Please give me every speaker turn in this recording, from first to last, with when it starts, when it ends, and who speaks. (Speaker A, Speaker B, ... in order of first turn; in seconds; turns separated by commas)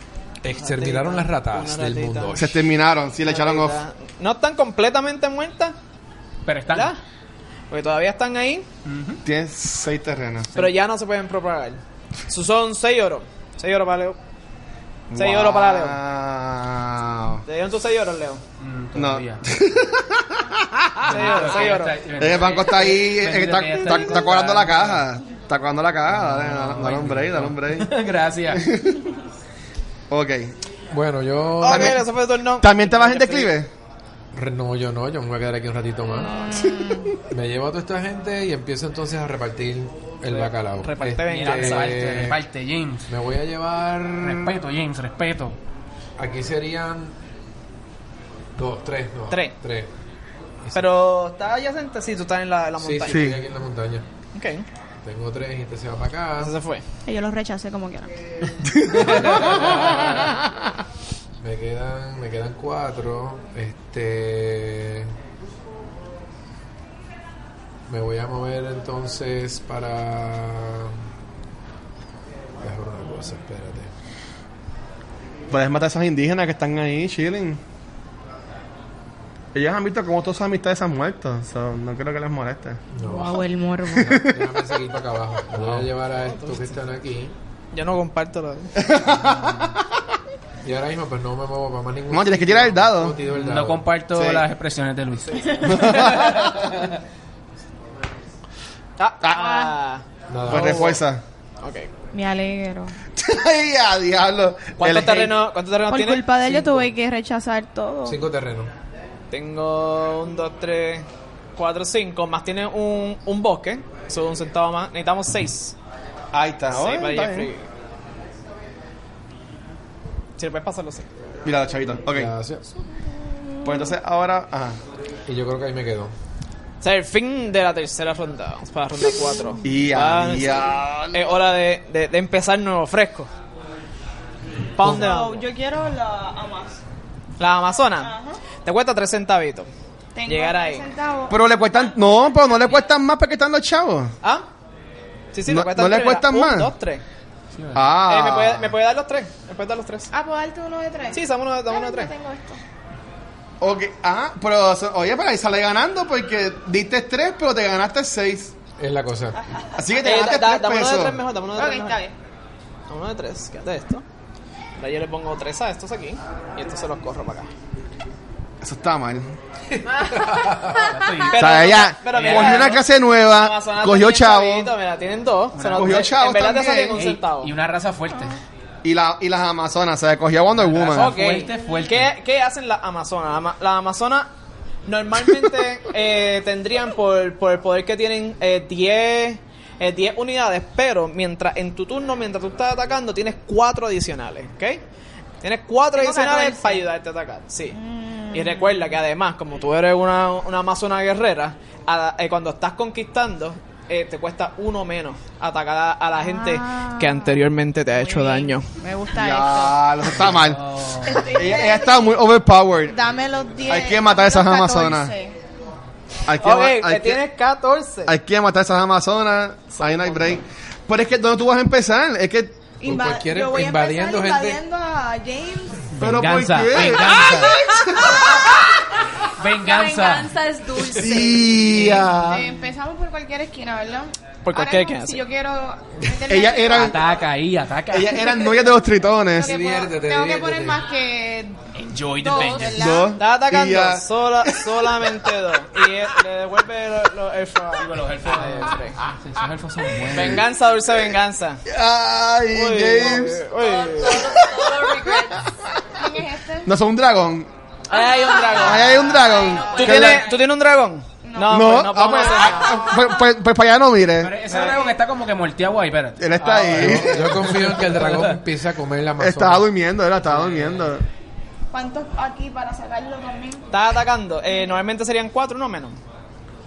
Speaker A: 0.4-2.6, Speaker B: 0.5-2.5, Speaker C: 2.4-3.8, Speaker B: 3.3-5.7, Speaker D: 6.5-7.0, Speaker B: 6.7-7.0, Speaker B: 7.7-8.7, Speaker D: 8.8-9.2, Speaker C: 9.2-10.5, Speaker B: 10.6-14.2, Speaker C: 15.1-17.4, Speaker B: 15.2-16.0, Speaker B: 17.5-18.4, Speaker D: 18.6-19.4, Speaker C: 18.9-21.2, Speaker D: 21.0-25.1, Speaker B: 21.1-22.0, Speaker C: 22.2-27.9, Speaker D: 26.1-28.6, Speaker C: 28.5-29.0, Speaker C: 30.1-30.5, Speaker A: 30.9-32.0, Speaker B: 31.6-33.5, Speaker C: 31.6-32.0, Speaker C: 32.6-33.7, Speaker A: 34.3-36.4, Speaker E: 36.1-37.2, Speaker C: 36.6-37.1, Speaker A: 37.3-42.4, Speaker B: 40.3-42.1, Speaker D: 41.3-43.1, Speaker A: 43.1-44.5, Speaker D: 44.2-45.6, Speaker A: 46.2-47.1, Speaker A: 48.6-49.9, Speaker B: 50.7-53.3, Speaker A: 52.8-54.0, Speaker C: 53.1-53.4, Speaker B: 54.4-54.7, Speaker A: 55.0-56.5, Speaker B: 56.4-56.8, Speaker E: 57.1-58.1, Speaker C: 58.6-59.9, Speaker A: 59.1-60.1, Speaker D: 59.5-59.8, Speaker A: 61.4-65.1, Speaker A: 67.9-71.0, Speaker A: 72.6-73.9, Speaker C: 75.5-77.6, Speaker C: 79.5-82.8, Speaker A: 83.0-83.5, Speaker E: 83.0-84.1, Speaker C: 83.9-84.5, Speaker A: 84.0-87.3, Speaker C: 85.6-85.9, Speaker B: 86.2-86.7, Speaker B: 87.7-88.7, Speaker C: 88.8-89.9, Speaker A: 90.6-93.9, Speaker C: 92.1-93.2, Speaker D: 93.3-96.9, Speaker C: 94.1-94.5, Speaker B: 95.3-95.7, Speaker C: 95.6-96.7, Speaker B: 99.0-101.0, Speaker E: 99.3-99.7, Speaker A: 100.3-101.0, Speaker C: 100.5-101.2, Speaker B: 101.6-101.9, Speaker E: 102.1-102.9, Speaker C: 103.2-105.3, Speaker B: 104.8-106.8, Speaker E: 105.9-108.2, Speaker A: 108.0-108.7, Speaker B: 109.3-111.1, Speaker B: 111.6-115.8, Speaker C: 116.3-117.5, Speaker B: 116.7-117.7, Speaker B: 120.4-121.1, Speaker C: 121.4-122.3, Speaker A: 122.1-122.6, Speaker C: 123.6-124.8, Speaker A: 125.3-126.1, Speaker B: 126.8-133.3, Speaker C: 129.6-131.3, Speaker B: 134.8-135.4, Speaker E: 134.8-136.8, Speaker B: 137.4-139.7, Speaker E: 138.0-138.4, Speaker E: 140.2-141.4, Speaker B: 140.3-140.8, Speaker C: 141.3-144.1, Speaker B: 145.3-147.0, Speaker C: 145.5-146.7, Speaker D: 147.6-147.9, Speaker C: 147.7-148.7, Speaker B: 148.1-150.1, Speaker E: 150.1-152.6, Speaker B: 151.1-152.1, Speaker C: 153.6-158.5, Speaker A: 158.8-159.4, Speaker E: 159.3-160.1, Speaker C: 159.8-161.2, Speaker B: 160.0-162.0, Speaker E: 161.6-162.1, Speaker B: 162.9-164.0, Speaker B: 164.8-167.5, Speaker C: 168.6-169.3, Speaker F: 169.9-170.8, Speaker D: 170.7-172.8, Speaker B: 171.2-177.5, Speaker C: 171.3-174.7, Speaker D: 175.5-176.1, Speaker C: 175.8-177.0, Speaker D: 176.9-178.4, Speaker C: 178.8-181.2, Speaker D: 180.6-182.1, Speaker B: 180.9-184.3, Speaker B: 184.9-194.8, Speaker B: 195.4-197.8, Speaker E: 195.9-196.8, Speaker E: 197.7-198.8, Speaker B: 198.3-208.7, Speaker E: 206.2-207.4, Speaker E: 207.9-209.9, Speaker C: 209.2-210.6, Speaker D: 210.2-211.3, Speaker E: 211.0-212.1, Speaker C: 211.2-213.0, Speaker E: 212.9-215.4, Speaker C: 213.7-215.1, Speaker C: 216.3-217.2, Speaker B: 216.4-218.1, Speaker C: 218.1-222.6, Speaker B: 219.8-220.3, Speaker E: 222.8-225.9, Speaker A: 222.8-224.6, Speaker D: 225.9-227.6, Speaker C: 226.0-228.4, Speaker E: 227.3-227.8, Speaker F: 227.9-228.5, Speaker D: 229.4-230.3, Speaker F: 229.4-232.0, Speaker C: 230.9-232.5, Speaker E: 232.1-237.0, Speaker B: 234.4-235.2, Speaker C: 236.3-237.0, Speaker D: 236.7-238.6, Speaker C: 237.9-239.6, Speaker E: 239.3-241.6, Speaker A: 239.4-240.8, Speaker D: 241.8-242.9, Speaker E: 242.2-243.2, Speaker F: 242.3-242.7, Speaker C: 242.8-245.3, Speaker B: 243.2-249.0, Speaker D: 247.8-250.5, Speaker B: 250.1-251.6, Speaker C: 251.7-253.4, Speaker B: 252.5-254.3, Speaker F: 253.5-255.5, Speaker C: 254.2-255.3, Speaker E: 255.9-256.7, Speaker C: 256.6-257.5, Speaker B: 257.9-259.2, Speaker F: 257.9-260.5, Speaker C: 258.5-260.2, Speaker E: 259.5-259.9, Speaker B: 259.7-262.9, Speaker E: 261.2-262.7, Speaker C: 261.5-264.4, Speaker D: 264.2-268.4, Speaker C: 266.2-267.6, Speaker A: 266.7-269.7, Speaker C: 269.2-271.0, Speaker D: 270.2-271.0, Speaker E: 271.7-273.7, Speaker B: 273.7-276.0